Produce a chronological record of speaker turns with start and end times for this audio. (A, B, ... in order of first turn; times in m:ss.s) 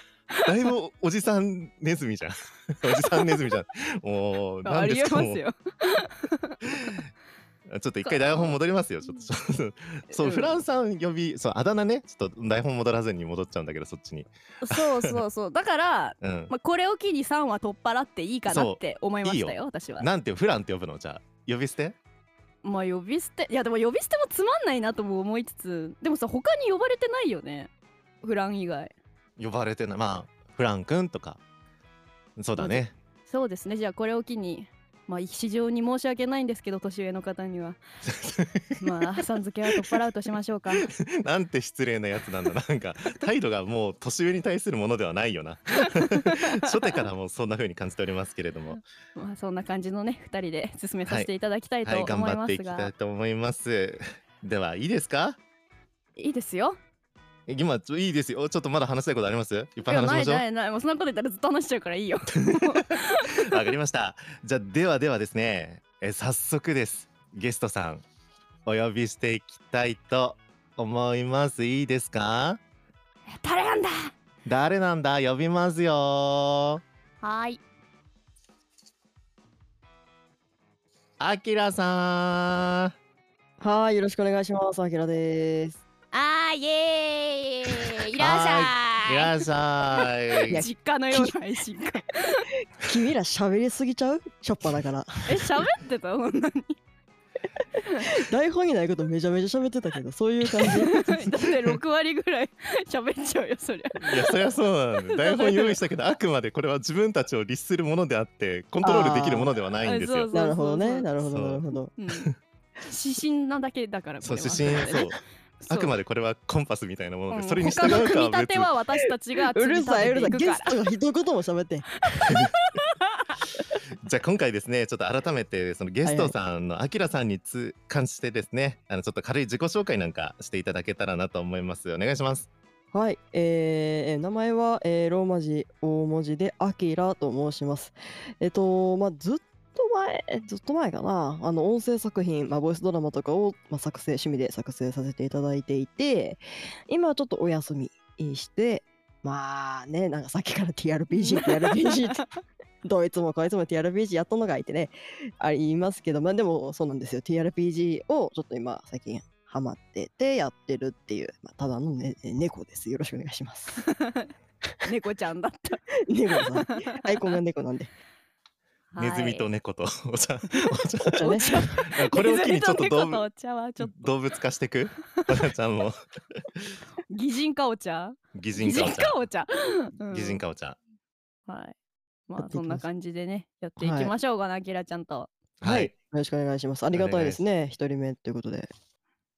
0:00.4-0:05.4 A
0:03.1-0:03.4 B
0:04.6-0:06.6 B
0:06.7-0:07.0 A
0:07.7-0:15.2 A
0:08.0-0:08.6 B
0:10.1-0:10.5 B
0:14.6-0:20.1 B
0:16.2-0:16.5 A
0:18.5-0:22.0 A
0:22.6-0:27.7 B
0:28.2-0:28.9 B
0:29.4-0:31.4 A
0:32.4-0:32.9 A
0:32.6-0:37.8 B
0:38.1-0:38.8 A
0:38.8-0:40.9 B
0:40.8-0:48.8 A
0:45.8-0:47.0 B
0:49.2-0:52.9 B
0:51.8-0:55.4 A
0:56.2-0:56.8 B
0:57.5-1:00.4 A
0:59.9-1:03.6 B
1:02.3-1:08.0 A
1:08.6-1:12.6 A
1:13.3-1:14.1 B
1:14.4-1:16.8 A
1:17.2-1:17.6 B
1:21.2-1:22.9 A
1:23.6-1:25.8 C
1:26.1-1:29.4 B
1:28.2-1:30.6 A
1:30.0-1:32.5 B
1:30.5-1:31.3 C
1:32.8-1:35.5 C
1:35.2-1:36.8 B
1:37.8-1:38.1 B
1:38.0-1:41.1 C
1:40.6-1:44.4 B
1:44.0-1:50.3 A
1:45.1-1:45.8 B
1:48.8-1:49.5 C
1:49.8-1:51.0 B
1:50.3-1:51.9 C
1:51.2-1:51.6 A
1:52.0-1:52.3 B
1:52.8-1:55.1 B
1:54.2-1:58.7 A
1:55.6-1:55.9 B
1:57.3-2:00.8 B
1:59.5-2:02.3 C
2:02.1-2:03.3 B
2:02.2-2:02.5 A
2:04.0-2:12.5 A
2:06.0-2:06.3 C
2:12.9-2:32.2 C
2:31.1-2:32.3 B
2:32.8-2:43.8 C
2:43.8-2:44.3 B
2:44.8-2:45.8 B
2:46.1-2:47.9 C
2:46.6-2:47.0 B
2:48.9-2:49.4 B
2:49.0-2:53.2 A
2:51.1-2:54.0 B
2:51.2-2:51.7 C
2:53.8-2:56.7 A
2:57.1-3:00.4 B
2:58.3-2:59.2 A
3:00.1-3:00.8 A
3:01.5-3:01.7 B
3:02.3-3:05.3 B
3:02.4-3:02.8 C
3:03.8-3:04.1 C
3:05.6-3:05.9 A
3:05.6-3:08.7 C
3:06.9-3:07.4 A